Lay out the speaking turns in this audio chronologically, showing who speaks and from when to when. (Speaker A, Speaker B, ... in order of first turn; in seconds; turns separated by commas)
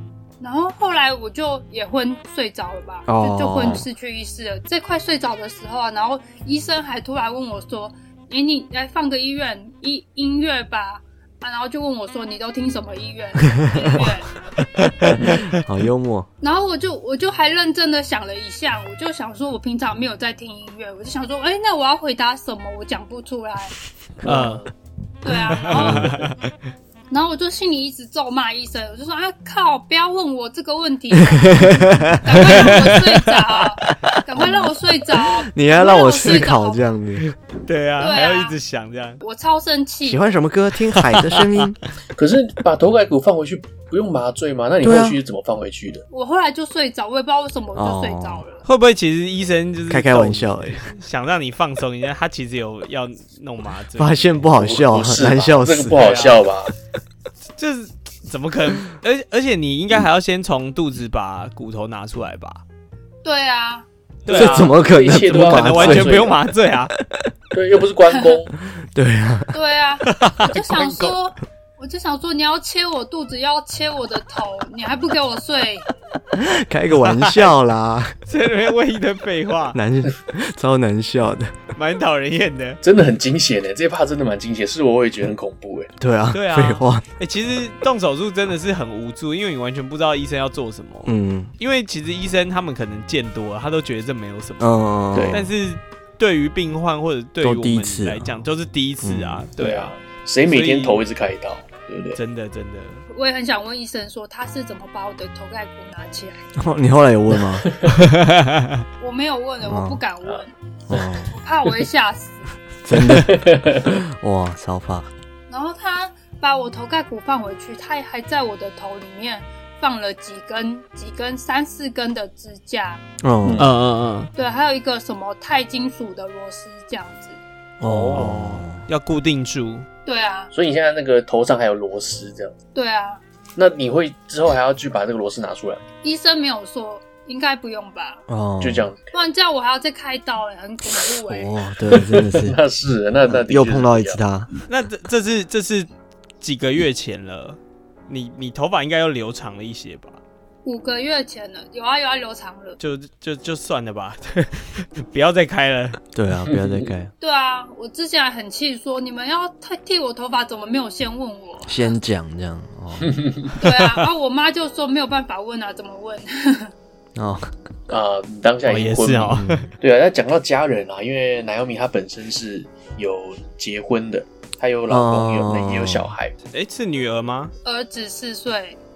Speaker A: 0.4-14.3, Speaker B: 3.1-3.9, Speaker B: 13.6-14.1, Speaker B: 14.6-16.3, Speaker C: 15.1-15.4, Speaker A: 16.4-23.7, Speaker B: 24.2-24.6, Speaker D: 24.2-24.6, Speaker C: 24.2-24.6, Speaker A: 25.2-26.1, Speaker D: 25.6-26.4, Speaker B: 25.7-26.1, Speaker A: 27.1-36.9, Speaker B: 31.2-33.0, Speaker D: 32.5-33.3, Speaker B: 33.9-37.4, Speaker D: 37.6-39.2, Speaker A: 38.0-38.5, Speaker A: 39.2-40.3, Speaker B: 40.0-41.8, Speaker D: 41.0-41.6, Speaker C: 42.1-46.0, Speaker B: 44.8-45.2, Speaker A: 46.1-48.6, Speaker B: 47.7-48.4, Speaker D: 48.6-54.5, Speaker B: 49.9-50.9, Speaker B: 54.0-56.2, Speaker C: 54.5-56.7, Speaker D: 55.9-56.5, Speaker D: 57.6-62.6, Speaker A: 63.2-63.9, Speaker D: 64.2-66.9, Speaker C: 64.3-66.4, Speaker B: 64.3-66.4, Speaker B: 66.9-67.3, Speaker C: 67.5-68.5, Speaker B: 68.7-69.5, Speaker A: 69.5-75.9, Speaker D: 70.0-71.1, Speaker B: 76.3-78.1, Speaker D: 76.9-77.5, Speaker D: 78.3-79.8, Speaker B: 79.7-81.6, Speaker D: 81.7-82.8, Speaker C: 82.8-85.9, Speaker B: 86.0-87.0, Speaker D: 86.3-94.7, Speaker B: 91.0-91.5, Speaker B: 94.6-95.5, Speaker C: 95.1-95.4, Speaker D: 95.3-101.0, Speaker B: 97.4-98.4, Speaker B: 99.0-99.5, Speaker C: 99.6-102.2, Speaker D: 102.1-103.0, Speaker A: 103.1-106.4, Speaker B: 106.6-107.8, Speaker C: 107.5-107.9, Speaker D: 107.8-108.8, Speaker A: 109.0-110.5, Speaker B: 109.6-110.0, Speaker B: 110.9-111.4, Speaker A: 111.4-112.5, Speaker B: 112.8-115.1, Speaker C: 112.9-113.9, Speaker A: 115.5-123.0, Speaker B: 123.2-123.7, Speaker C: 123.4-123.7, Speaker D: 123.6-124.3, Speaker A: 124.3-127.4, Speaker B: 127.8-128.8, Speaker C: 127.8-128.3, Speaker D: 128.1-129.9, Speaker A: 130.0-130.5, Speaker C: 130.5-132.5, Speaker A: 132.7-133.2, Speaker C: 133.6-135.8, Speaker A: 136.0-138.2, Speaker B: 138.3-138.9, Speaker C: 138.6-139.1, Speaker A: 139.1-141.5, Speaker B: 141.2-142.6, Speaker C: 142.1-144.2, Speaker B: 143.2-144.5, Speaker D: 144.7-145.9, Speaker D: 146.4-150.2, Speaker A: 150.6-152.8, Speaker D: 152.8-156.0, Speaker B: 156.1-157.1, Speaker C: 156.5-156.8, Speaker A: 157.2-161.9, Speaker B: 161.7-163.2, Speaker C: 163.0-163.5, Speaker A: 163.6-166.7, Speaker D: 163.7-164.1, Speaker B: 167.1-167.5, Speaker C: 167.9-176.3, Speaker D: 168.7-169.7, Speaker B: 169.3-169.7, Speaker B: 174.9-176.1, Speaker D: 176.5-177.5, Speaker A: 177.6-178.8